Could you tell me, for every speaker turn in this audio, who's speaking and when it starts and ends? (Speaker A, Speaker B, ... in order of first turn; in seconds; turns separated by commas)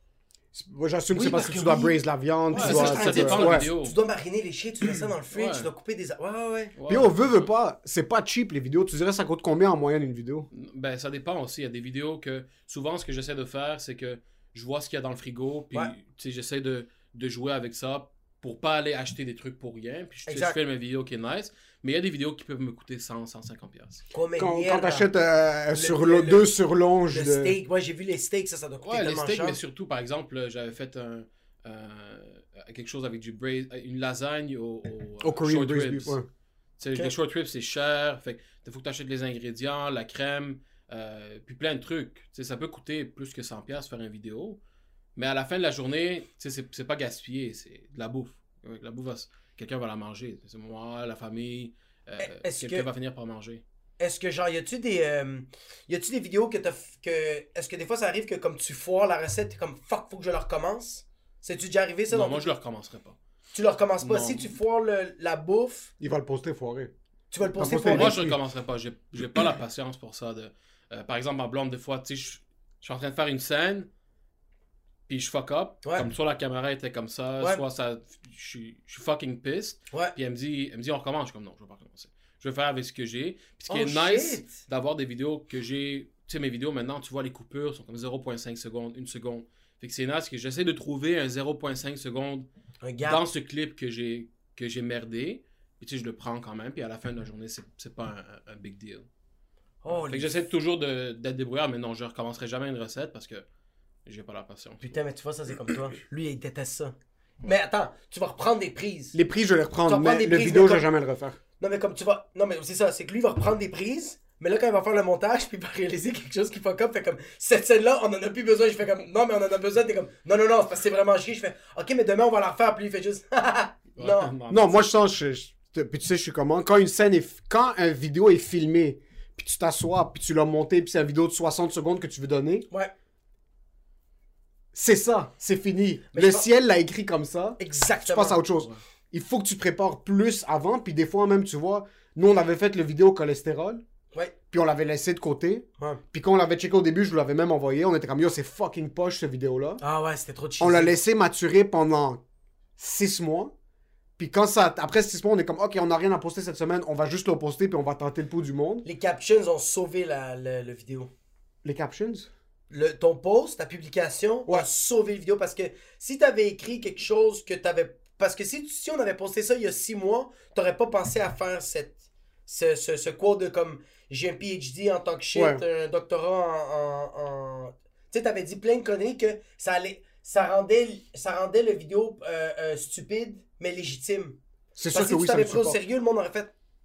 Speaker A: 0.5-3.6, Speaker B: 1.1-2.0, Speaker B: 2.5-6.7, Speaker C: 2.5-3.9, Speaker C: 5.3-5.7, Speaker C: 6.8-7.5, Speaker A: 6.9-10.5, Speaker C: 10.5-24.0, Speaker B: 20.3-20.6, Speaker B: 24.1-25.1, Speaker A: 24.4-27.6, Speaker B: 25.7-26.5, Speaker B: 27.1-29.6, Speaker C: 28.8-36.2, Speaker A: 35.2-36.2, Speaker C: 36.8-44.6, Speaker C: 45.1-53.6, Speaker B: 52.2-52.9, Speaker B: 54.0-62.5, Speaker C: 62.1-63.2, Speaker B: 63.5-65.9, Speaker C: 64.0-64.5, Speaker A: 66.0-66.9, Speaker B: 67.3-68.2, Speaker A: 67.6-68.4, Speaker C: 67.7-73.9, Speaker C: 75.1-92.5, Speaker B: 83.7-84.6, Speaker B: 92.8-93.2, Speaker C: 93.0-99.0, Speaker B: 99.8-100.4, Speaker C: 99.9-103.4, Speaker C: 104.0-105.0, Speaker B: 104.8-109.2, Speaker A: 109.1-111.4, Speaker B: 109.8-110.8, Speaker B: 111.6-124.3, Speaker C: 124.0-124.8, Speaker A: 124.5-132.7, Speaker A: 134.7-143.8, Speaker B: 136.1-136.5, Speaker B: 137.6-138.4, Speaker A: 144.5-149.8, Speaker B: 149.8-150.9, Speaker A: 150.6-152.2, Speaker A: 152.8-153.5, Speaker A: 154.2-158.8, Speaker B: 158.8-161.1, Speaker A: 161.6-162.3, Speaker B: 162.7-184.4, Speaker A: 175.3-175.6, Speaker A: 184.8-185.8, Speaker B: 184.9-186.5